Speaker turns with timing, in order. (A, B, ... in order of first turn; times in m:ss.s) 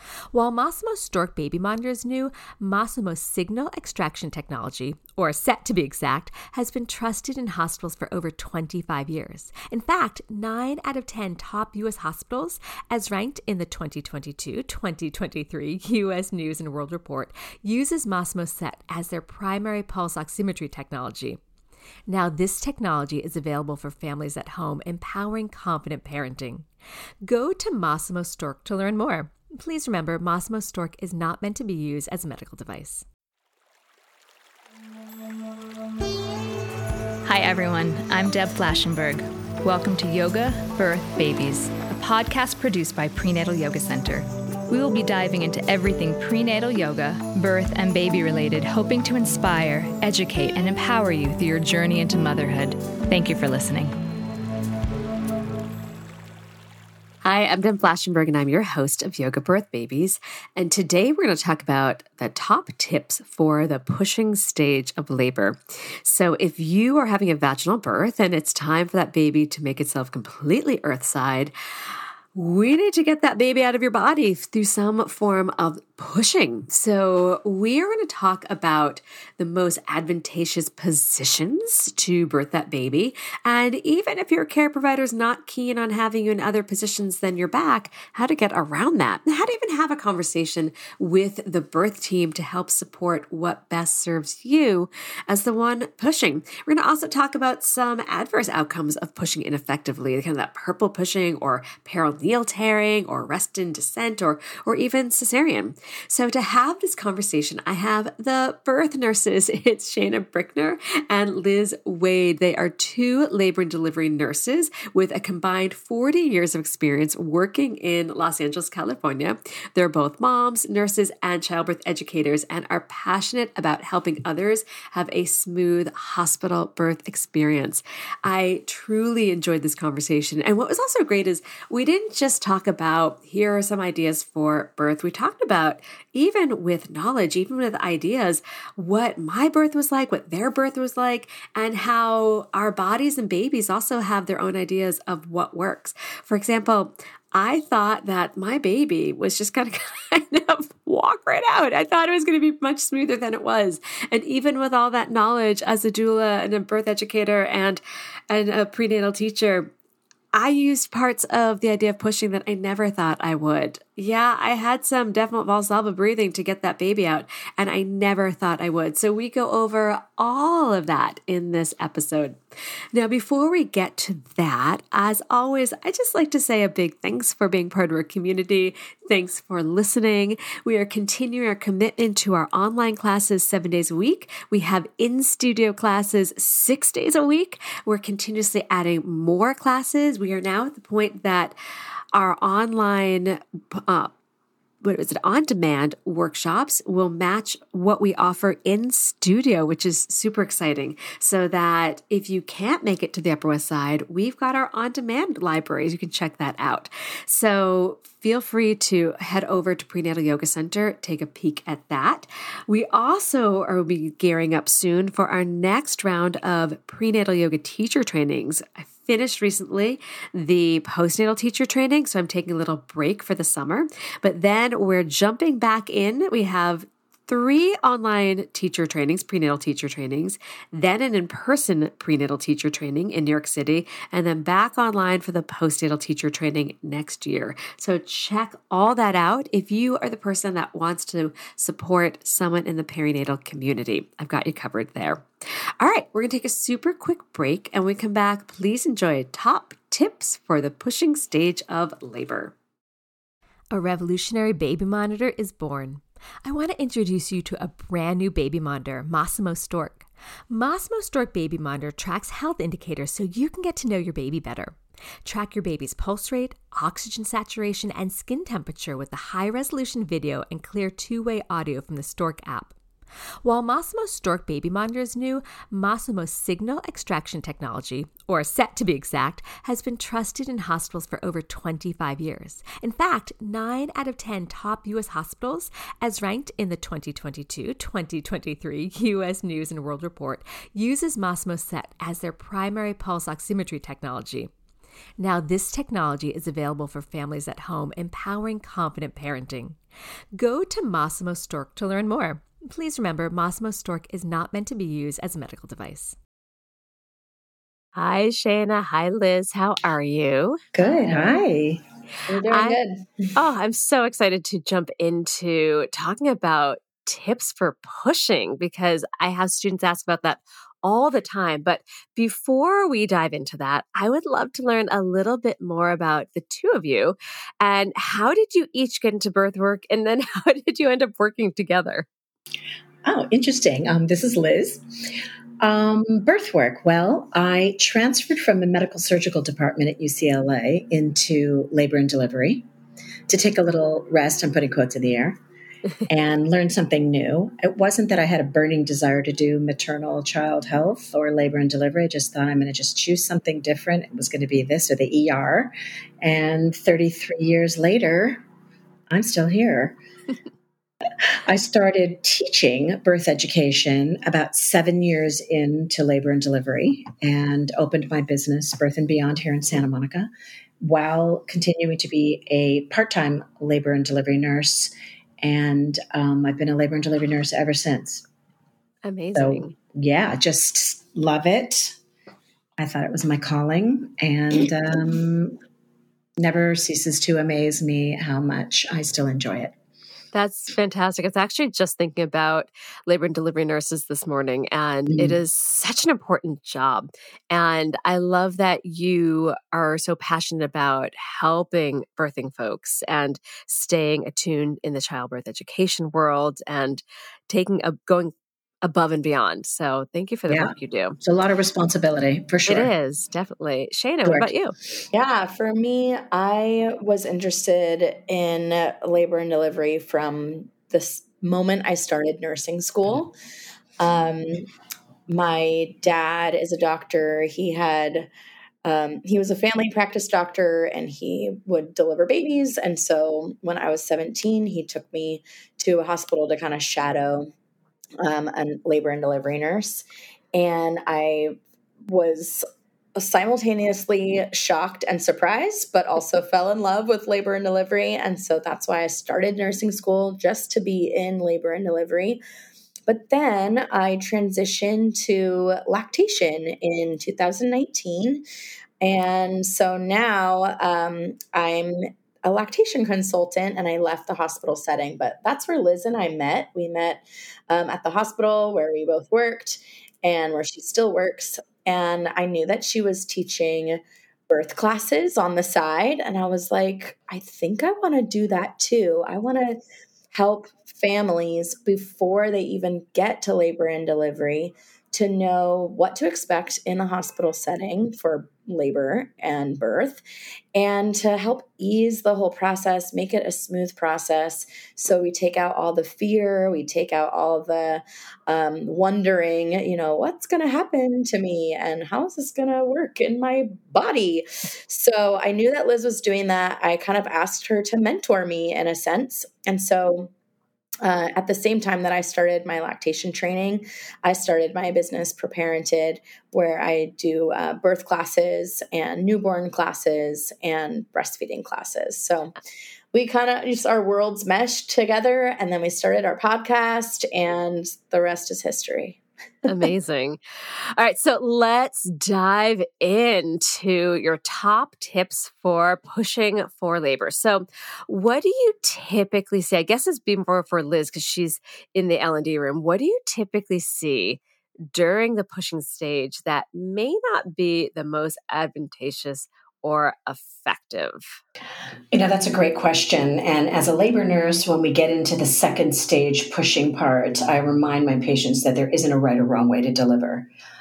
0:00.3-0:21.4 A
0:22.1-0:26.7 A
0:27.2-0:33.0 A
0:38.3-0:38.8 B
0:38.4-0:39.1 A
0:39.7-0:40.2 B
0:39.9-0:44.2 A
0:42.4-0:43.4 B
0:44.9-0:46.2 A
0:46.3-0:46.7 B
0:46.7-0:47.1 A
0:47.3-0:47.8 B
0:47.9-0:48.7 A
0:49.4-0:51.0 B
0:51.8-0:52.5 A
0:53.4-0:53.8 A
0:57.2-1:11.5 C
1:12.4-2:39.7 C
2:40.3-2:52.4 C
2:52.9-3:11.6 C
3:12.1-3:14.1 C
3:14.8-4:05.3 C
4:05.8-4:12.5 C
4:13.7-4:32.8 A
4:33.4-4:54.5 A
4:55.2-4:59.8 A
5:00.4-5:06.2 A
5:08.0-5:10.6 C
5:10.7-5:11.8 D
5:12.3-5:13.3 E
5:12.5-5:12.8 C
5:13.4-5:32.1 C
5:33.0-5:35.0 D
5:35.6-5:42.7 D
5:43.3-5:45.4 D
5:46.1-5:58.4 D
5:59.1-6:00.0 D
6:01.4-6:18.3 D
6:19.0-6:19.8 C
6:19.4-6:22.0 D
6:22.8-6:25.6 D
6:26.4-6:29.7 D
6:30.3-6:51.2 C
6:35.1-6:35.4 D
6:50.5-6:52.9 D
6:52.7-6:54.7 C
6:54.2-6:54.5 D
6:55.1-7:03.3 E
7:04.0-7:04.7 E
7:05.3-7:08.3 E
7:08.8-7:17.5 E
7:18.2-7:21.6 E
7:22.1-7:22.6 E
7:23.2-7:32.4 E
7:33.1-7:38.4 E
7:39.0-7:59.8 E
8:00.3-8:10.2 E
8:10.8-8:30.3 E
8:31.0-8:42.5 E
8:43.1-8:49.2 E
8:49.7-8:50.4 C
8:51.0-9:04.4 C
9:04.9-9:11.3 C
9:12.1-9:20.5 D